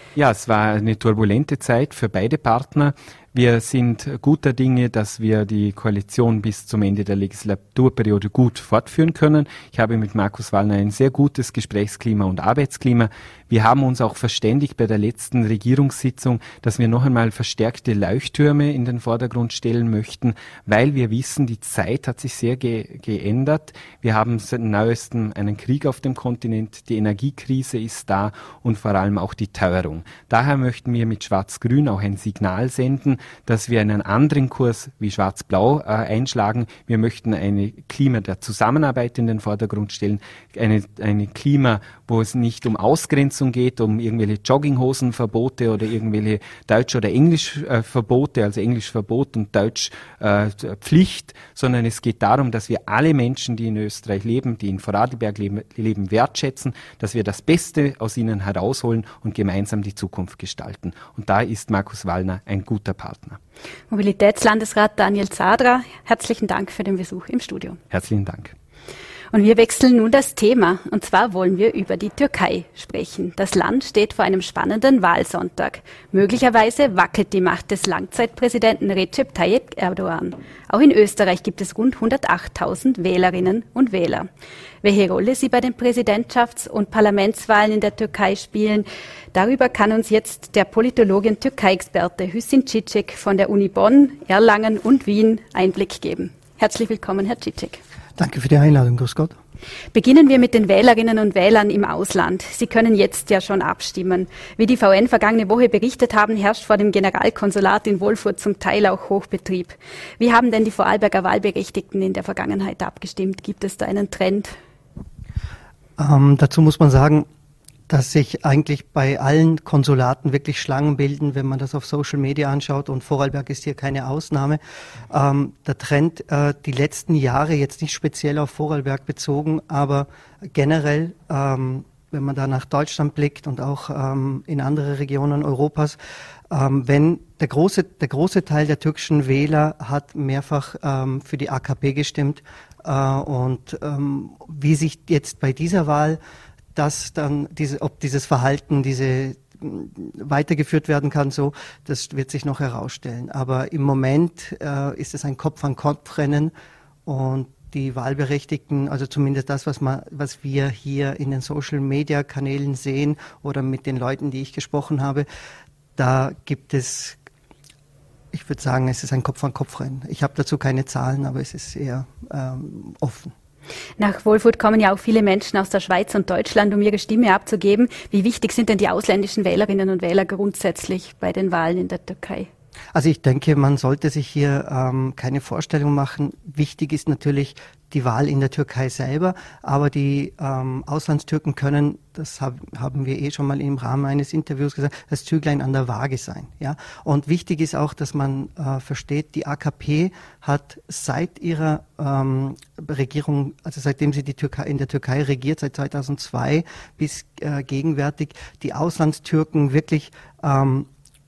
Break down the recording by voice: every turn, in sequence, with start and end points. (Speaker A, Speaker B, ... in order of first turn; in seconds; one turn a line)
Speaker A: 0.1-63.4
Speaker B: 63.9-67.8
Speaker A: 67.9-68.5
Speaker B: 69.3-84.3
Speaker B: 84.8-97.8
Speaker C: 98.2-99.3
Speaker B: 99.9-114.5
Speaker C: 116.0-117.3
Speaker C: 117.9-136.0
Speaker C: 136.5-146.2
Speaker C: 146.7-156.5
Speaker C: 157.1-165.3
Speaker C: 166.0-167.2
Speaker C: 168.3-173.3
Speaker B: 174.0-182.5
Speaker C: 182.9-210.9